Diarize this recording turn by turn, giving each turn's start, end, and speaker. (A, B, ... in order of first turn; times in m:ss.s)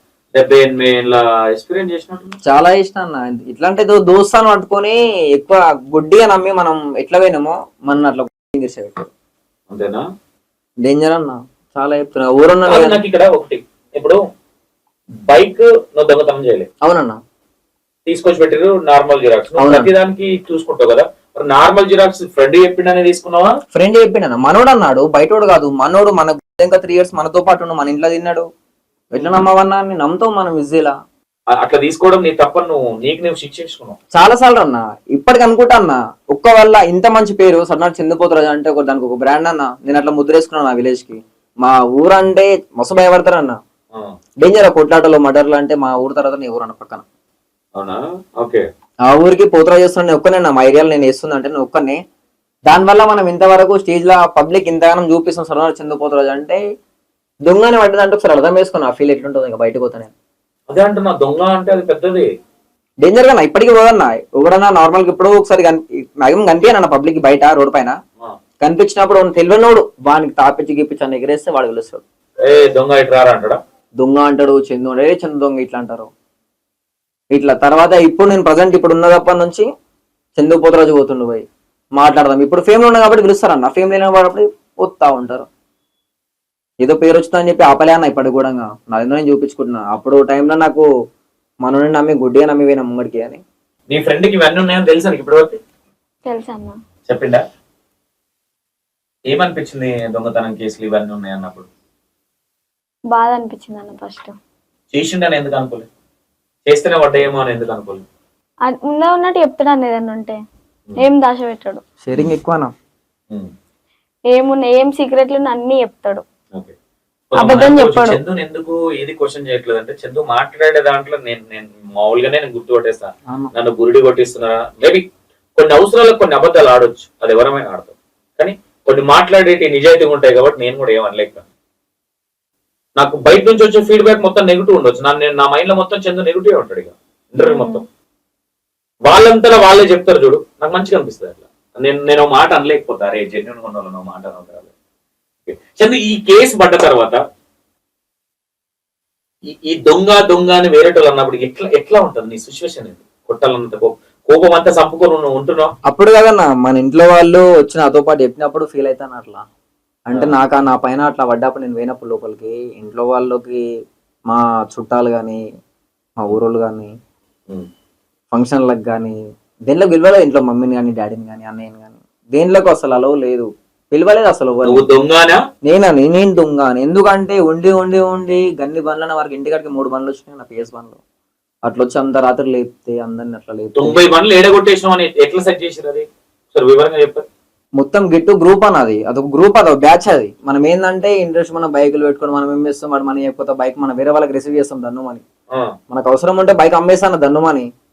0:00.3-0:02.3 A
0:02.5-0:09.1 B
0:09.7-0:10.0 A
0:10.8-0:13.0 B
0:12.7-0:14.2 A
0:15.2-0:16.7 A
0:16.8-0:17.2 B
0:18.1-0:23.5 A
0:19.6-0:19.9 B
0:23.7-0:28.4 B
0:29.1-0:30.9 B
0:29.2-0:29.4 A
0:31.5-0:34.0 A
0:34.1-0:43.6 B
0:44.4-0:47.0 B
0:47.8-0:48.6 A
0:49.1-0:52.0 B
0:52.7-0:56.6 B
0:57.4-1:00.1 B
1:00.7-1:02.3 A
1:03.0-1:08.0 B
1:08.6-1:12.0 B
1:12.4-1:13.6 A
1:14.0-1:16.1 B
1:17.3-1:19.7 B
1:20.4-1:21.4 B
1:22.0-1:25.5 B
1:26.8-1:30.9 B
1:31.6-1:33.4 B
1:33.9-1:35.6 A
1:36.3-1:36.8 C
1:37.0-1:37.4 A
1:39.3-1:41.7 A
1:43.1-1:44.4 C
1:44.9-1:45.9 A
1:46.7-1:48.0 A
1:48.6-1:50.4 C
1:51.0-1:51.8 C
1:52.0-1:52.7 B
1:54.3-1:56.2 C
1:57.3-2:11.5 A
1:57.4-1:58.2 C
2:13.0-2:17.8 A
2:17.4-2:17.8 C
2:19.0-2:24.7 A
2:25.5-2:27.2 A
2:29.5-2:35.7 A
2:35.9-2:39.5 B
2:40.1-2:43.6 B
2:44.3-2:45.4 B
2:46.2-2:46.9 B
2:48.3-2:49.2 B
2:49.7-2:54.9 B
2:54.6-2:55.4 A
2:55.6-3:01.0 B
3:01.6-3:04.0 B
3:03.8-3:07.3 A
3:07.8-3:15.2 B
3:15.9-3:17.7 B